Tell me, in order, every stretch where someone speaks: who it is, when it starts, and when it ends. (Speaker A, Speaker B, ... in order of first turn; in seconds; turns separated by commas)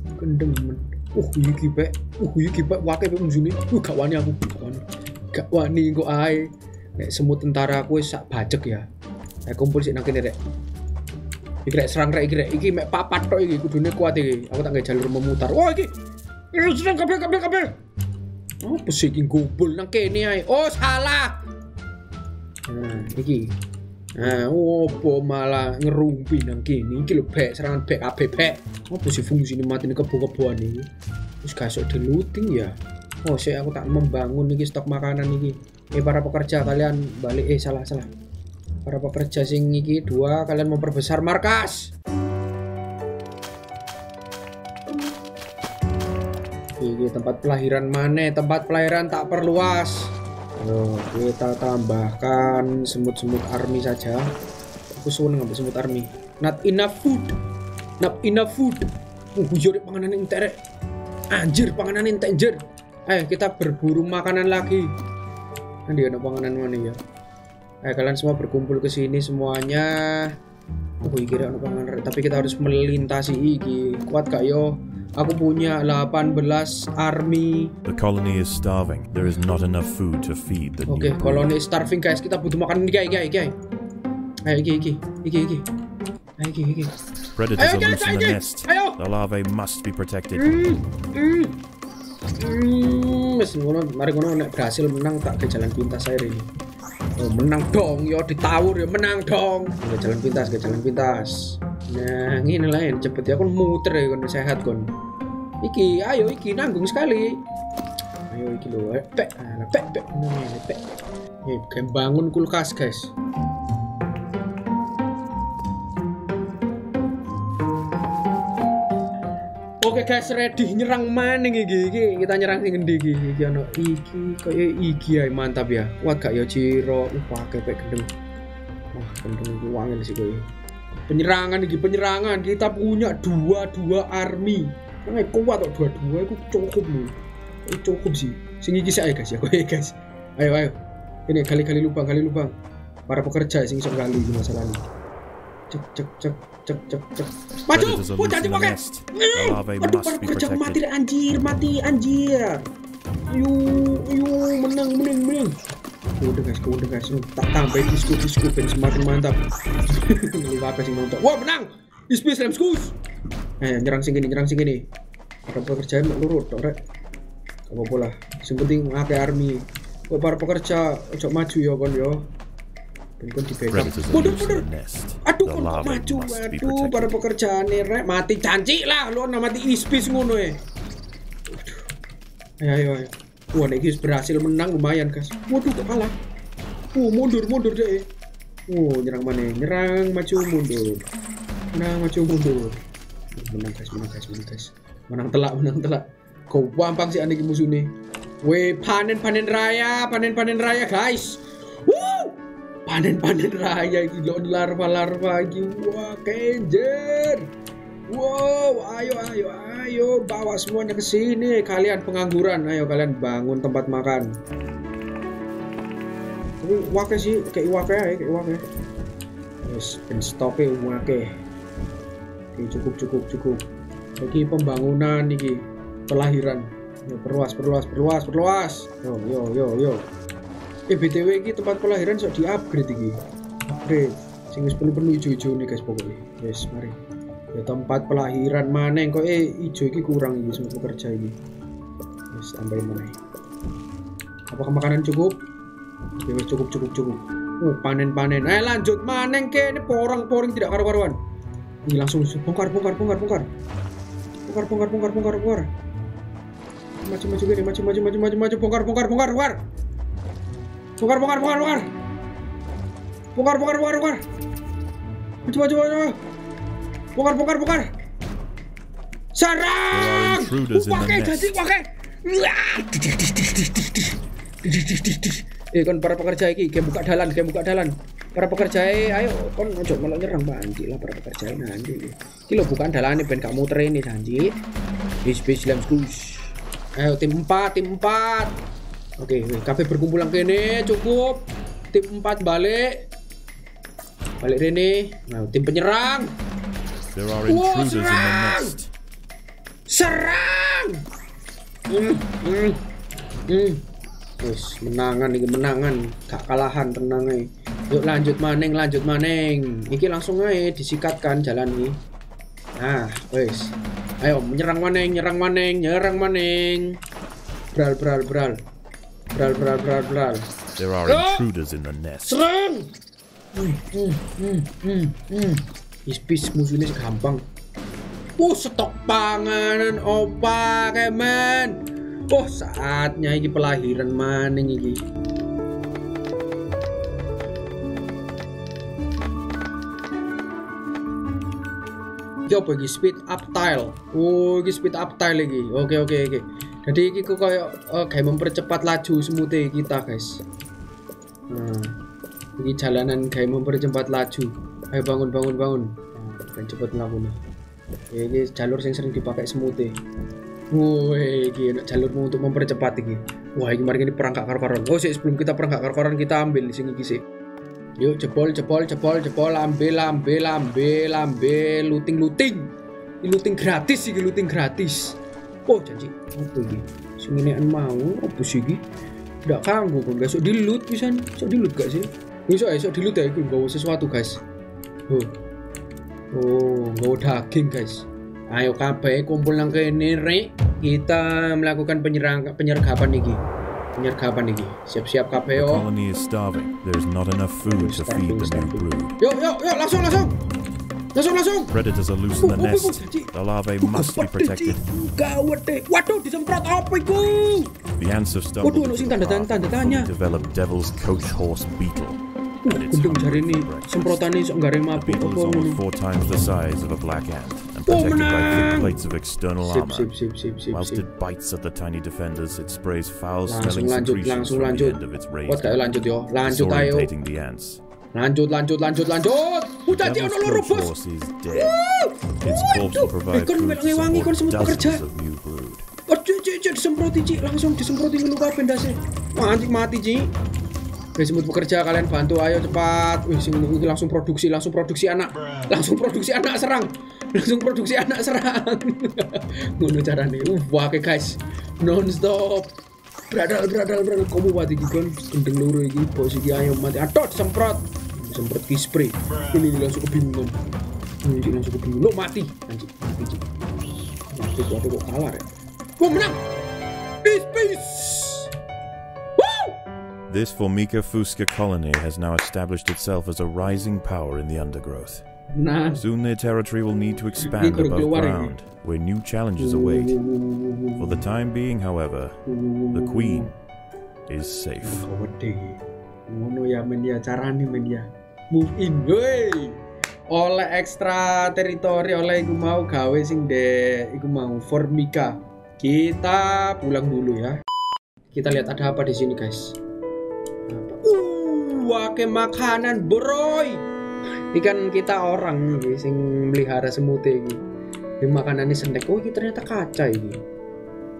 Speaker A: 0.2-8.9, Speaker A: 9.4-10.4, Speaker A: 11.6-15.9, Speaker A: 16.5-17.7, Speaker A: 18.6-21.4, Speaker A: 22.7-23.5, Speaker A: 24.1-30.9, Speaker A: 31.4-38.1, Speaker A: 38.9-41.9, Speaker A: 46.8-54.3, Speaker A: 54.9-57.3, Speaker A: 58.0-60.6, Speaker A: 61.3-64.9, Speaker A: 65.9-67.0, Speaker A: 67.8-70.3, Speaker A: 71.0-77.7, Speaker B: 77.8-81.5, Speaker A: 80.9-83.5, Speaker A: 84.5-85.7, Speaker A: 86.4-87.0, Speaker B: 87.3-90.5, Speaker A: 87.6-89.0, Speaker A: 90.3-91.5, Speaker A: 92.4-96.5, Speaker A: 97.2-104.9, Speaker A: 105.6-107.4, Speaker A: 108.3-110.8, Speaker A: 111.5-113.1, Speaker A: 119.8-128.1, Speaker A: 128.9-130.5, Speaker A: 131.1-137.1, Speaker A: 137.7-140.8, Speaker A: 141.3-142.5, Speaker A: 143.1-144.8, Speaker A: 145.7-152.7, Speaker B: 147.7-150.8, Speaker A: 153.3-155.6, Speaker A: 156.2-163.0, Speaker A: 163.6-164.8, Speaker A: 165.5-166.8, Speaker A: 167.7-172.2, Speaker A: 173.2-174.6, Speaker B: 173.7-177.2, Speaker A: 175.2-180.6, Speaker A: 181.5-181.9, Speaker A: 182.6-186.1, Speaker A: 186.9-188.1, Speaker A: 188.7-191.0, Speaker A: 191.7-192.8, Speaker A: 193.3-197.9, Speaker A: 198.4-207.5, Speaker A: 208.1-214.3, Speaker A: 216.6-218.6, Speaker A: 219.6-221.3, Speaker A: 222.5-223.6, Speaker A: 224.2-230.1, Speaker A: 230.9-237.0, Speaker A: 237.5-241.3, Speaker A: 242.3-243.2, Speaker A: 244.5-245.4, Speaker A: 246.2-251.2, Speaker A: 251.8-253.5, Speaker A: 254.5-255.7, Speaker A: 257.0-259.6, Speaker A: 261.0-261.9, Speaker A: 263.4-264.2, Speaker A: 265.5-266.2, Speaker A: 267.2-267.9, Speaker A: 269.3-284.5, Speaker B: 269.9-271.6, Speaker A: 285.2-288.5, Speaker A: 289.2-293.1, Speaker A: 294.4-296.3, Speaker B: 297.1-298.9, Speaker A: 297.5-298.8, Speaker A: 299.9-301.0, Speaker A: 301.9-302.8, Speaker A: 303.5-303.8, Speaker A: 304.4-312.0, Speaker A: 312.8-317.0, Speaker A: 317.8-318.6, Speaker A: 319.3-320.5, Speaker B: 320.8-322.4, Speaker A: 321.1-321.4, Speaker A: 322.2-322.9, Speaker A: 323.5-327.4, Speaker A: 328.4-331.8, Speaker A: 332.3-335.0, Speaker A: 342.5-350.4, Speaker A: 351.5-352.0, Speaker A: 352.6-357.4, Speaker A: 358.1-360.0, Speaker A: 360.7-367.2, Speaker A: 368.0-378.8, Speaker A: 379.5-384.4, Speaker A: 386.3-393.4, Speaker A: 394.0-395.9, Speaker B: 395.5-399.2, Speaker A: 397.6-400.3, Speaker A: 401.1-401.8, Speaker B: 401.7-404.8, Speaker A: 402.4-407.8, Speaker B: 407.9-414.2, Speaker A: 408.6-410.1, Speaker A: 412.6-415.8, Speaker B: 414.9-420.1, Speaker A: 417.9-419.0, Speaker A: 419.6-421.1, Speaker B: 420.7-425.8, Speaker A: 423.5-427.1, Speaker B: 426.4-427.8, Speaker A: 428.1-430.9, Speaker B: 429.9-431.8, Speaker A: 431.5-435.0, Speaker B: 432.4-435.9, Speaker A: 436.1-440.3, Speaker A: 441.2-452.7, Speaker A: 453.3-460.6, Speaker A: 461.2-463.5, Speaker A: 464.3-465.5, Speaker A: 466.0-466.4, Speaker A: 467.2-468.5, Speaker A: 469.4-469.8, Speaker B: 470.3-475.2, Speaker A: 475.5-476.0, Speaker B: 475.9-480.2, Speaker A: 477.4-478.6, Speaker A: 479.6-481.2, Speaker B: 481.0-482.4, Speaker A: 482.5-483.5, Speaker B: 482.9-483.5, Speaker B: 484.3-485.1, Speaker A: 484.8-489.8, Speaker A: 490.3-497.6, Speaker A: 498.3-499.8, Speaker A: 500.7-503.8, Speaker A: 504.5-507.6, Speaker A: 508.2-510.4